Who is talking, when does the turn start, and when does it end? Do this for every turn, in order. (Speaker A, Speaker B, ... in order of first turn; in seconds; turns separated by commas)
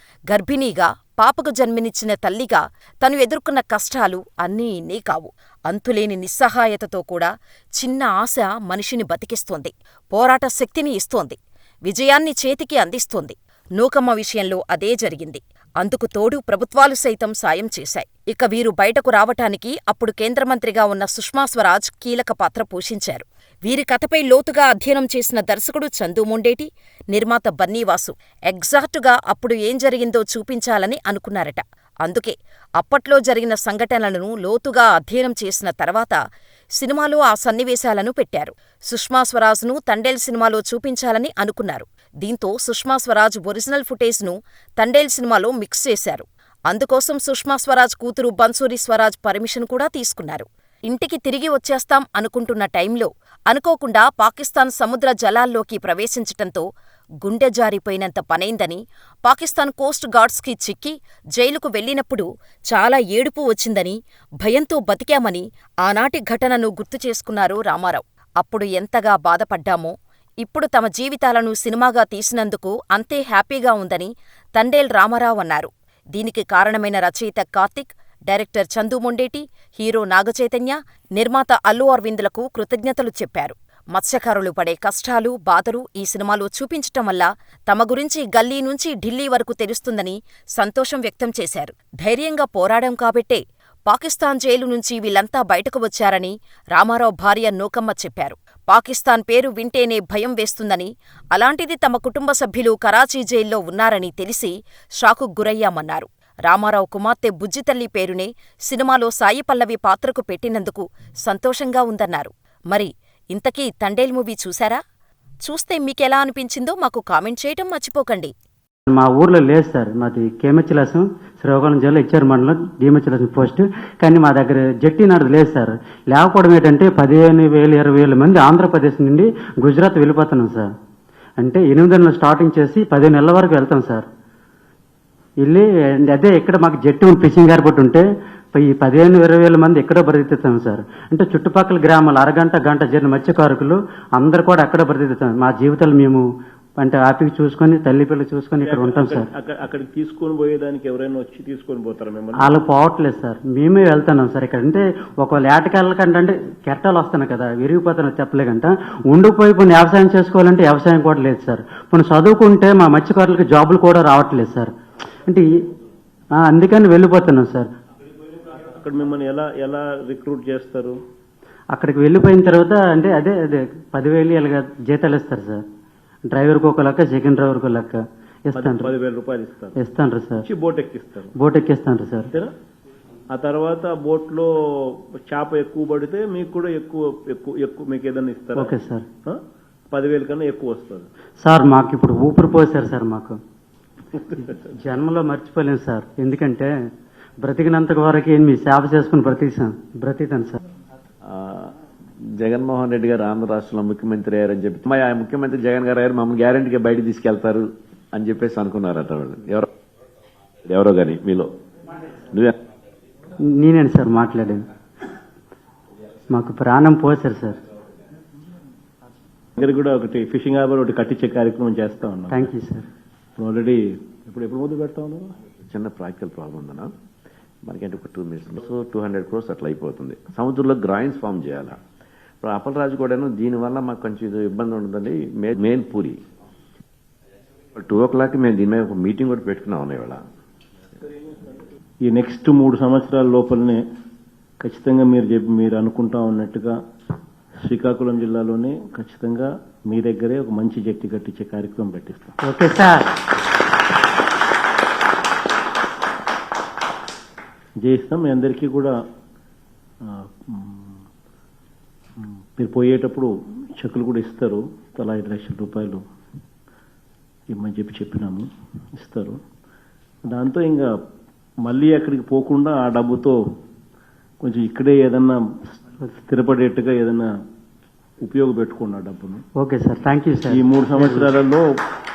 Speaker A: 0.3-36.2, Speaker A: 36.8-56.6, Speaker A: 57.2-114.8, Speaker A: 115.4-118.3, Speaker B: 118.9-130.7, Speaker B: 131.4-134.0, Speaker B: 135.4-146.2, Speaker B: 146.8-149.3, Speaker C: 148.6-152.5, Speaker B: 152.4-164.7, Speaker B: 166.3-167.7, Speaker C: 168.7-171.0, Speaker B: 171.7-175.6, Speaker B: 176.3-178.9, Speaker C: 178.5-179.8, Speaker B: 179.8-180.4, Speaker C: 180.4-181.3, Speaker B: 181.4-182.3, Speaker C: 183.3-188.7, Speaker B: 188.6-189.1, Speaker C: 189.9-191.1, Speaker B: 191.4-193.4, Speaker B: 194.3-196.7, Speaker B: 197.4-200.6, Speaker D: 201.2-201.7, Speaker D: 202.4-209.7, Speaker D: 210.6-211.5, Speaker D: 212.3-212.5, Speaker B: 213.4-214.6, Speaker B: 216.3-217.6, Speaker C: 219.6-222.5, Speaker B: 222.3-222.8, Speaker C: 223.4-225.3, Speaker D: 225.7-226.9, Speaker D: 227.7-231.8, Speaker D: 232.4-236.2, Speaker D: 237.8-240.2, Speaker C: 241.1-243.8, Speaker C: 244.6-246.8, Speaker C: 247.6-252.3, Speaker B: 252.4-253.1, Speaker C: 257.8-258.9, Speaker C: 260.0-261.0, Speaker C: 262.2-266.0, Speaker C: 267.5-269.4, Speaker C: 270.3-270.9, Speaker C: 271.6-273.4, Speaker C: 274.4-277.3, Speaker C: 278.2-279.4, Speaker B: 279.6-281.2, Speaker C: 280.5-281.8